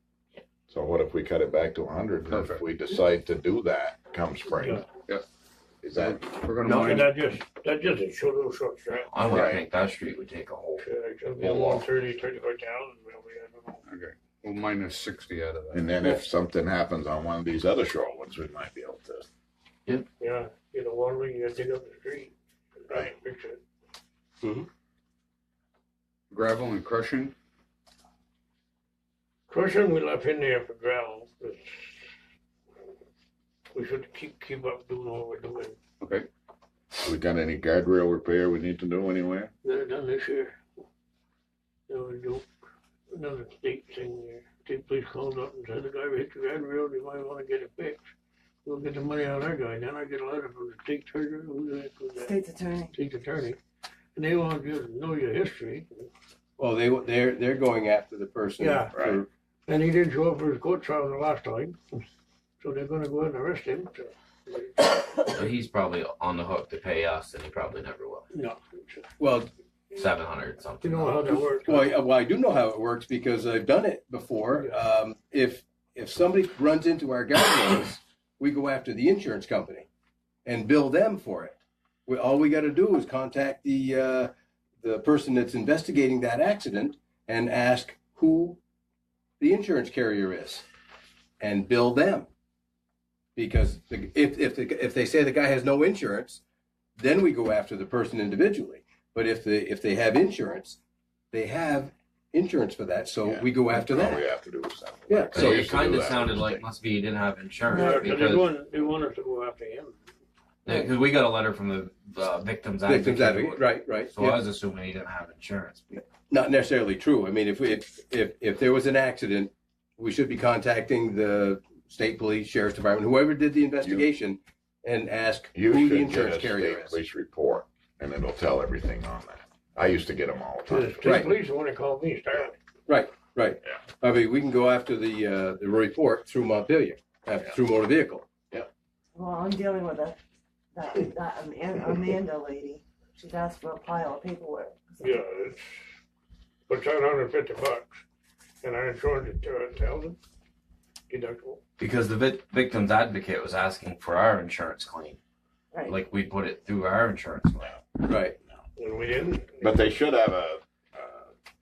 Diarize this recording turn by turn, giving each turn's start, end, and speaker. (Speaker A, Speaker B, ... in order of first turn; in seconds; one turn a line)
Speaker A: 0.7-4.8
Speaker B: 2.3-2.6
Speaker C: 4.5-4.9
Speaker A: 5.8-6.3
Speaker B: 6.0-7.1
Speaker D: 6.6-7.1
Speaker C: 6.8-9.5
Speaker D: 9.1-11.8
Speaker A: 9.3-9.6
Speaker C: 10.8-13.8
Speaker B: 13.9-16.1
Speaker A: 15.7-19.3
Speaker C: 20.2-22.3
Speaker C: 22.9-23.6
Speaker E: 24.4-24.7
Speaker B: 26.3-27.4
Speaker C: 29.5-32.1
Speaker C: 33.7-35.8
Speaker B: 36.0-36.3
Speaker A: 37.0-39.5
Speaker C: 39.6-40.6
Speaker C: 41.9-42.5
Speaker C: 43.1-48.0
Speaker C: 48.6-52.3
Speaker F: 52.2-53.0
Speaker C: 52.9-53.6
Speaker C: 54.1-56.1
Speaker E: 56.6-59.3
Speaker C: 58.6-59.0
Speaker A: 58.9-59.2
Speaker C: 59.7-61.8
Speaker C: 62.6-65.4
Speaker D: 65.2-68.3
Speaker C: 68.3-69.1
Speaker E: 69.2-69.5
Speaker D: 69.9-71.2
Speaker C: 70.8-72.0
Speaker E: 71.3-79.9
Speaker E: 80.5-88.6
Speaker E: 89.4-90.7
Speaker E: 91.4-92.3
Speaker E: 93.4-96.4
Speaker E: 97.0-100.8
Speaker E: 101.3-104.3
Speaker A: 103.2-106.7
Speaker E: 105.1-105.7
Speaker D: 105.3-108.5
Speaker C: 107.7-110.0
Speaker D: 110.6-115.9
Speaker E: 112.8-114.4
Speaker E: 115.9-127.0
Speaker A: 123.8-124.1
Speaker A: 125.5-131.3
Speaker C: 130.7-132.6
Speaker E: 131.0-131.3
Speaker E: 132.9-138.3
Speaker F: 139.2-140.2
Speaker F: 140.7-145.2
Speaker C: 145.0-145.8
Speaker C: 146.7-148.0
Speaker C: 148.6-150.2
Speaker C: 151.1-151.6
Speaker D: 151.8-155.2
Speaker F: 155.7-156.0
Speaker D: 155.9-157.7
Speaker A: 157.6-157.9
Speaker E: 158.1-158.4
Speaker C: 158.8-159.8
Speaker A: 159.6-161.3